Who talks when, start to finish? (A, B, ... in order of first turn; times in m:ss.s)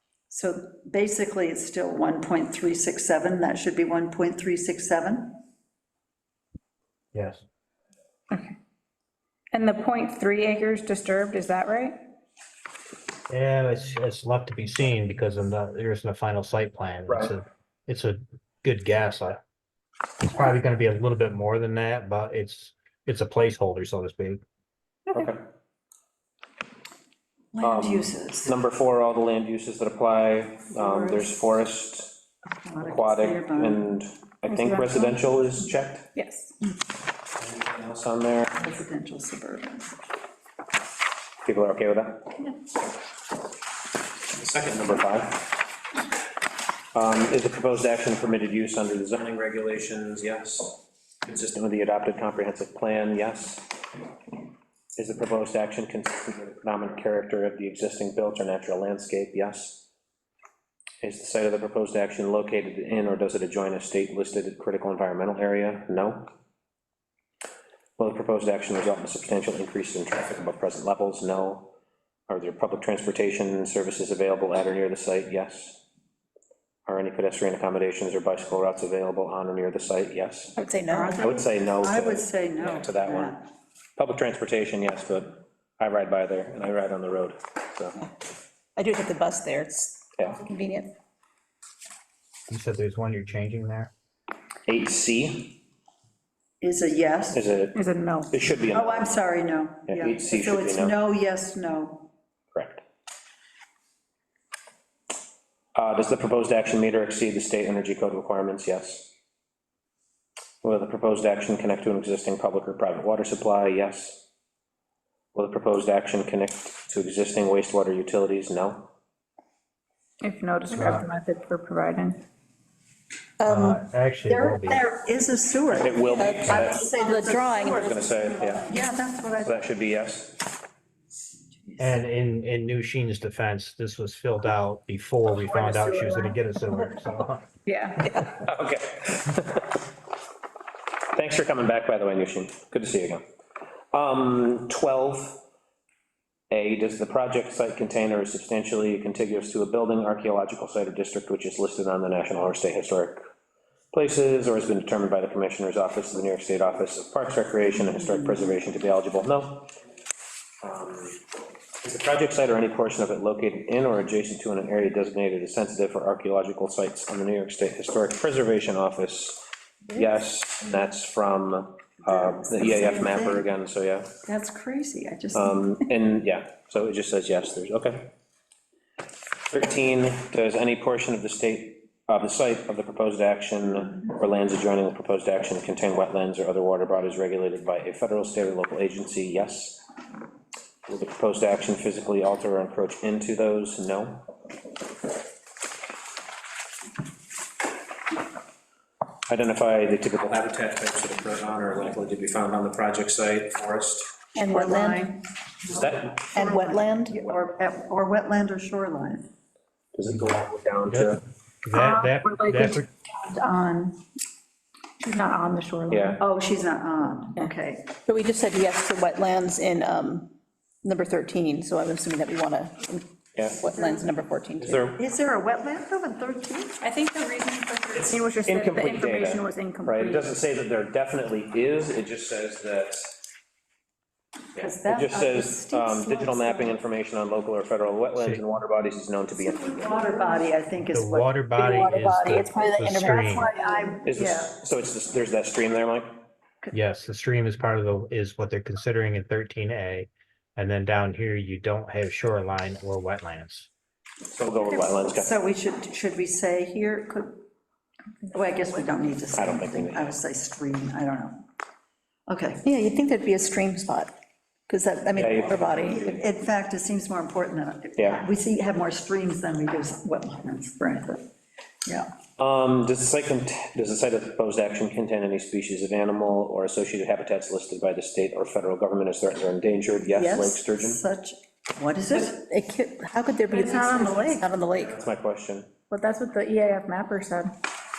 0:00.3-0:05.4 A
0:07.1-0:07.4 B
0:09.6-0:11.8 C
0:10.8-0:12.0 D
0:13.3-0:19.4 B
0:17.1-0:17.3 E
0:20.2-0:24.4 B
0:25.1-0:25.4 E
0:27.5-0:28.6 A
0:27.6-0:32.2 E
0:30.8-0:31.4 A
0:32.4-0:33.9 A
0:32.8-0:36.1 E
0:34.5-0:35.2 C
0:36.1-0:36.5 C
0:37.4-0:38.6 E
0:38.5-0:40.0 A
0:41.4-0:42.3 E
0:44.3-0:45.6 E
0:46.9-0:53.7 E
0:55.0-0:59.9 E
1:01.0-1:06.3 E
1:08.0-1:11.7 E
1:12.3-1:15.8 E
1:16.9-1:20.6 E
1:20.6-1:21.2 D
1:20.9-1:23.4 A
1:21.2-1:23.4 E
1:24.0-1:28.0 E
1:28.8-1:30.9 D
1:32.5-1:33.9 B
1:34.7-1:35.6 E
1:36.6-1:37.4 A
1:37.3-1:39.1 E
1:37.7-1:38.3 D
1:38.7-1:42.1 A
1:39.9-1:41.0 E
1:42.5-1:42.8 E
1:45.7-1:49.1 E
1:50.6-1:54.3 E
1:55.3-1:58.9 E
2:00.2-2:02.2 C
2:00.7-2:01.1 D
2:00.7-2:01.0 B
2:03.4-2:03.8 D
2:03.4-2:04.8 B
2:04.3-2:09.7 A
2:05.7-2:06.9 E
2:06.1-2:08.1 D
2:07.8-2:08.8 E
2:09.4-2:10.4 E
2:11.8-2:17.5 B
2:15.8-2:16.2 D
2:17.7-2:18.2 D
2:18.1-2:19.8 E
2:21.1-2:23.2 E
2:23.9-2:25.4 E
2:26.5-2:33.2 E
2:33.9-2:39.7 E
2:40.6-2:41.2 E
2:41.8-2:54.1 E
2:52.1-2:53.5 A
2:54.2-2:55.9 A
2:55.3-2:58.1 E
2:59.5-3:09.8 E
3:10.9-3:14.3 E
3:19.3-3:24.1 E
3:24.3-3:25.1 D
3:24.4-3:29.3 A
3:25.7-3:26.3 E
3:26.3-3:27.2 D
3:29.9-3:31.2 E
3:30.9-3:32.9 B
3:31.7-3:34.0 D
3:35.0-3:35.9 D
3:35.9-3:36.2 C
3:35.9-3:36.2 E
3:36.2-3:37.9 A
3:37.4-3:44.8 D
3:43.3-3:43.6 E
3:43.7-3:44.1 A
3:44.6-3:45.0 E
3:44.8-3:46.8 A
3:46.8-3:50.3 C
3:48.0-3:53.1 E
3:48.2-3:48.5 D
3:54.6-3:56.9 A
3:54.6-4:00.0 E
3:58.2-3:58.4 B
3:59.4-4:01.3 A
4:00.9-4:03.5 B
4:01.6-4:03.6 D
4:03.3-4:04.6 A
4:04.0-4:06.2 E
4:06.7-4:13.7 B
4:14.3-4:15.4 E
4:14.6-4:17.4 A
4:18.3-4:21.4 A
4:19.3-4:20.1 E
4:22.3-4:22.6 A
4:22.6-4:24.1 D
4:24.7-4:26.2 D
4:25.2-4:25.9 E
4:25.8-4:31.3 A
4:28.0-4:28.2 E
4:32.4-4:41.0 E
4:40.1-4:42.4 A
4:42.1-4:45.0 D
4:43.5-4:44.5 A
4:43.6-4:44.3 C
4:44.9-4:45.8 E
4:45.9-4:47.5 C